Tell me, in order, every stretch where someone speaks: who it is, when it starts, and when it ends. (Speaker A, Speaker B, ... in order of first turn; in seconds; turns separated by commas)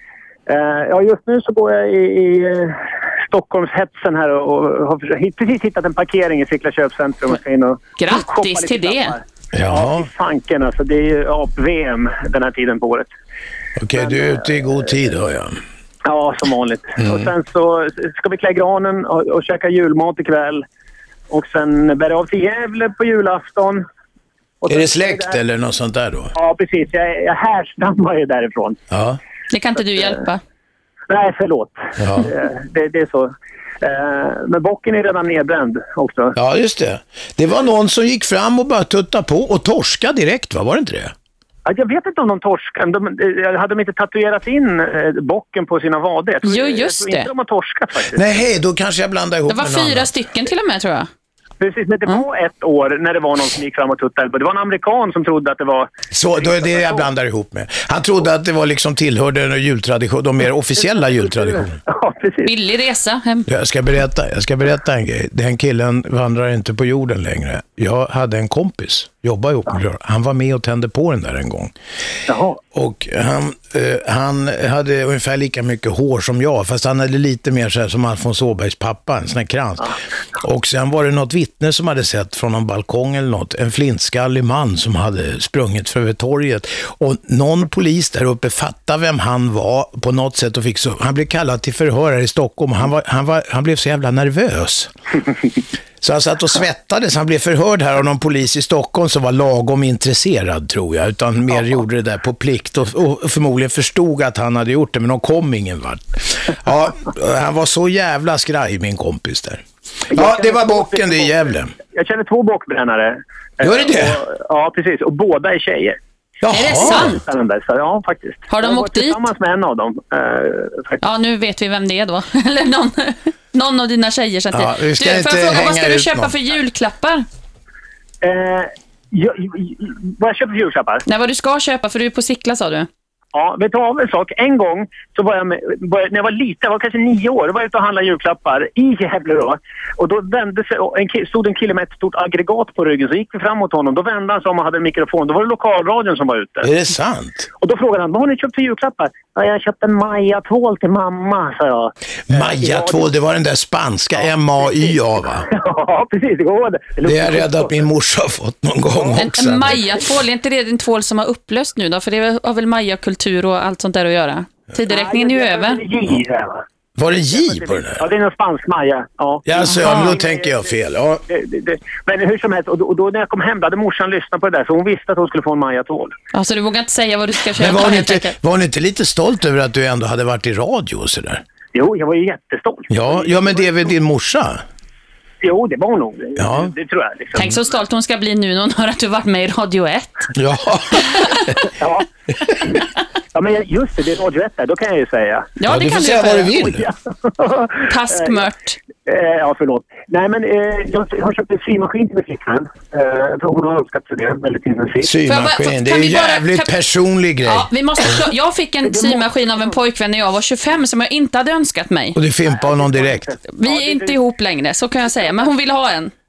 Speaker A: 0.5-13.1, Speaker B: 8.0-9.1, Speaker C: 9.5-10.1, Speaker C: 13.8-15.6, Speaker A: 13.9-14.9, Speaker A: 16.0-20.6, Speaker C: 17.0-17.3, Speaker A: 21.3-23.8, Speaker A: 24.6-25.4, Speaker C: 24.7-26.3, Speaker A: 26.3-28.8, Speaker C: 28.9-29.2, Speaker B: 29.5-30.4, Speaker A: 31.1-36.3, Speaker C: 32.0-32.3, Speaker C: 36.4-41.1, Speaker A: 41.6-48.4, Speaker B: 46.4-47.3, Speaker C: 48.1-50.1, Speaker B: 49.5-51.1, Speaker A: 51.6-57.0, Speaker C: 56.1-61.8, Speaker A: 60.8-62.5, Speaker B: 62.4-63.5, Speaker C: 63.5-71.7, Speaker A: 72.3-72.6, Speaker C: 72.7-94.9, Speaker C: 96.0-111.7, Speaker A: 110.1-116.0, Speaker C: 113.6-114.2, Speaker C: 116.4-117.2, Speaker B: 116.5-117.2, Speaker A: 116.6-121.0, Speaker B: 118.5-119.2, Speaker B: 121.0-127.2, Speaker C: 124.5-126.3, Speaker A: 128.2-131.0, Speaker B: 131.1-132.9, Speaker A: 133.3-146.7, Speaker C: 146.6-147.5, Speaker A: 147.6-153.1, Speaker C: 152.3-155.5, Speaker A: 154.1-154.9, Speaker A: 155.5-157.9, Speaker C: 157.0-159.8, Speaker B: 159.2-165.8, Speaker A: 164.8-166.6, Speaker C: 167.0-168.0, Speaker A: 167.3-170.7, Speaker C: 169.4-171.2, Speaker B: 169.6-170.2, Speaker A: 171.3-176.2, Speaker B: 176.3-178.3, Speaker C: 177.6-181.4, Speaker A: 181.7-183.9, Speaker C: 182.9-184.6, Speaker A: 185.4-187.6, Speaker C: 186.4-186.7, Speaker B: 187.3-190.3, Speaker C: 190.3-191.5, Speaker A: 191.8-192.1, Speaker A: 193.3-195.5, Speaker B: 195.6-196.7, Speaker C: 195.7-196.8, Speaker A: 196.6-198.5, Speaker B: 197.9-198.8, Speaker A: 199.1-205.1, Speaker C: 205.0-207.7, Speaker B: 205.2-206.7, Speaker B: 207.4-212.2, Speaker A: 208.8-209.2, Speaker C: 212.2-213.3, Speaker A: 212.4-214.2, Speaker B: 213.5-216.1